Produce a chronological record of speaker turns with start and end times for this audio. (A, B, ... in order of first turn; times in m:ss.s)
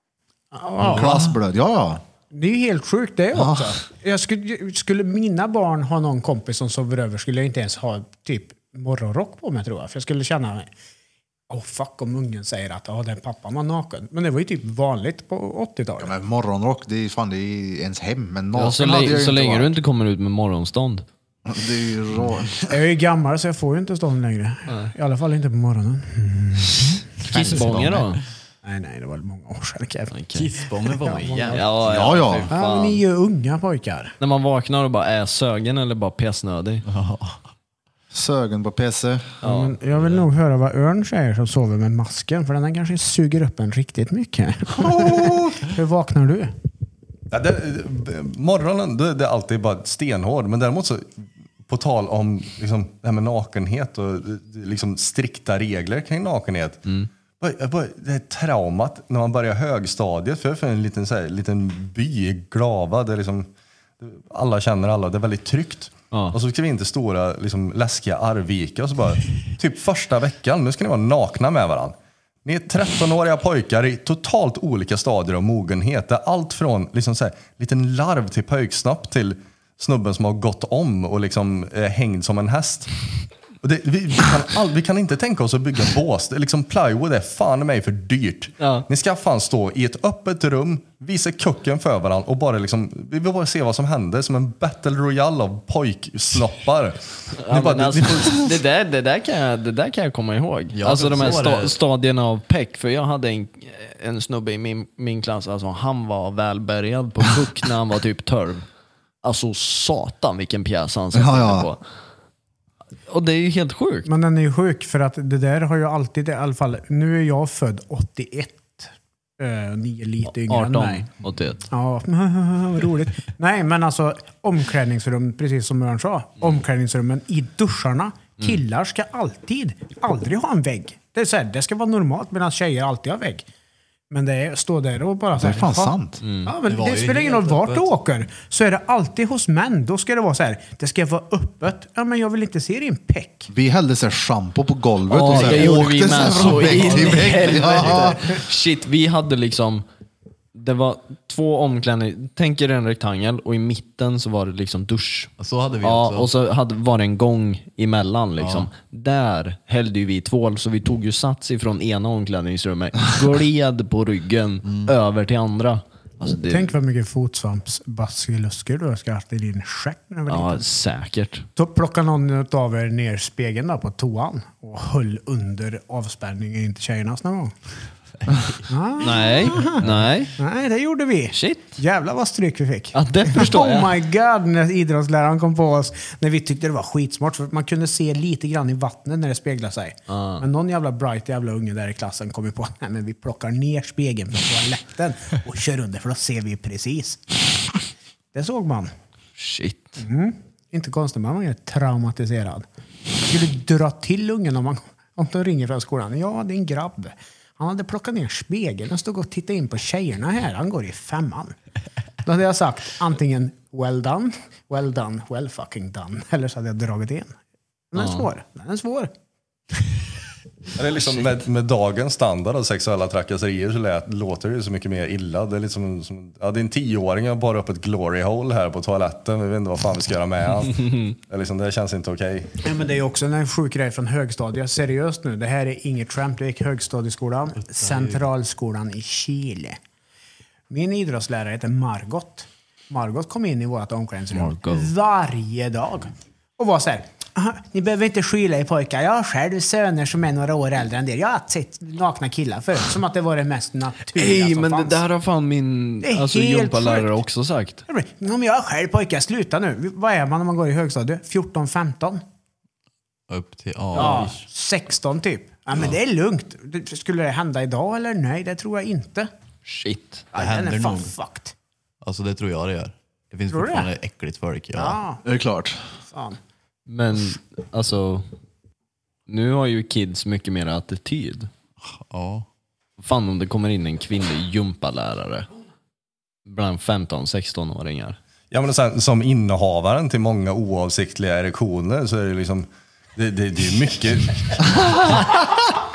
0:00.5-0:01.2 A
0:00.8-0:02.0 B
0:02.3-0:10.7 A
0:03.3-0:03.8 B
0:11.5-0:16.1 A
0:16.0-0:19.7 B
0:18.5-0:21.0 C
0:21.4-0:22.8 B
0:22.7-0:27.9 A
0:27.2-0:28.2 C
0:27.4-0:28.0 B
0:28.6-0:30.2 A
0:30.1-0:30.5 C
0:30.3-0:31.6 D
0:31.0-0:31.6 A
0:31.4-0:33.0 C
0:31.8-0:32.5 B
0:32.5-0:34.1 A
0:34.2-0:36.8 C
0:36.8-0:37.4 D
0:38.1-0:39.4 B
0:39.4-0:39.8 C
0:39.4-0:46.5 A
0:44.9-0:45.4 E
0:47.3-0:56.8 E
0:57.4-1:03.5 E
1:04.0-1:22.9 E
1:06.1-1:06.4 C
1:23.6-1:38.5 E
1:28.6-1:28.8 C
1:37.4-1:48.6 C
1:40.7-1:41.8 D
1:49.2-1:51.8 C
1:51.1-1:51.7 B
1:53.1-1:54.1 C
1:54.0-2:01.1 A
2:00.2-2:01.6 C
2:01.6-2:13.4 A
2:14.1-2:23.5 A
2:15.3-2:16.2 B
2:16.2-2:16.5 C
2:16.6-2:17.9 D
2:23.5-2:28.2 B
2:25.1-2:29.8 C
2:25.3-2:25.7 D
2:26.4-2:27.4 D
2:30.5-2:46.7 C
2:35.4-2:36.3 D
2:38.4-2:38.7 D
2:44.6-2:44.9 D
2:46.5-2:50.6 A
2:50.3-2:51.5 C
2:51.6-2:57.5 A
2:58.7-3:17.4 A
2:59.0-3:00.4 C
3:01.3-3:01.8 C
3:02.9-3:03.9 C
3:10.1-3:10.4 C
3:18.3-3:18.9 A
3:19.4-3:20.0 C
3:20.0-3:22.6 A
3:23.2-3:31.5 A
3:32.2-3:37.4 A
3:37.9-3:39.1 A
3:38.0-3:38.3 C
3:40.8-3:52.6 E
3:52.6-3:59.8 A
3:57.6-3:58.2 D
4:00.7-4:15.0 A
4:04.3-4:04.9 C
4:14.1-4:17.8 C
4:16.0-4:17.2 A
4:17.9-4:22.2 A
4:23.3-4:24.4 D
4:23.9-4:24.3 C
4:23.9-4:29.3 A
4:29.6-4:30.2 C
4:30.3-4:31.5 A
4:30.4-4:31.1 D
4:32.0-4:35.0 D
4:33.5-4:33.9 A
4:34.7-4:35.2 A
4:35.2-4:35.8 B
4:36.0-4:36.4 A
4:36.9-4:38.3 C
4:39.3-4:41.5 C
4:41.8-4:42.4 D
4:43.0-4:45.5 C
4:46.4-4:48.2 C
4:48.5-4:55.5 E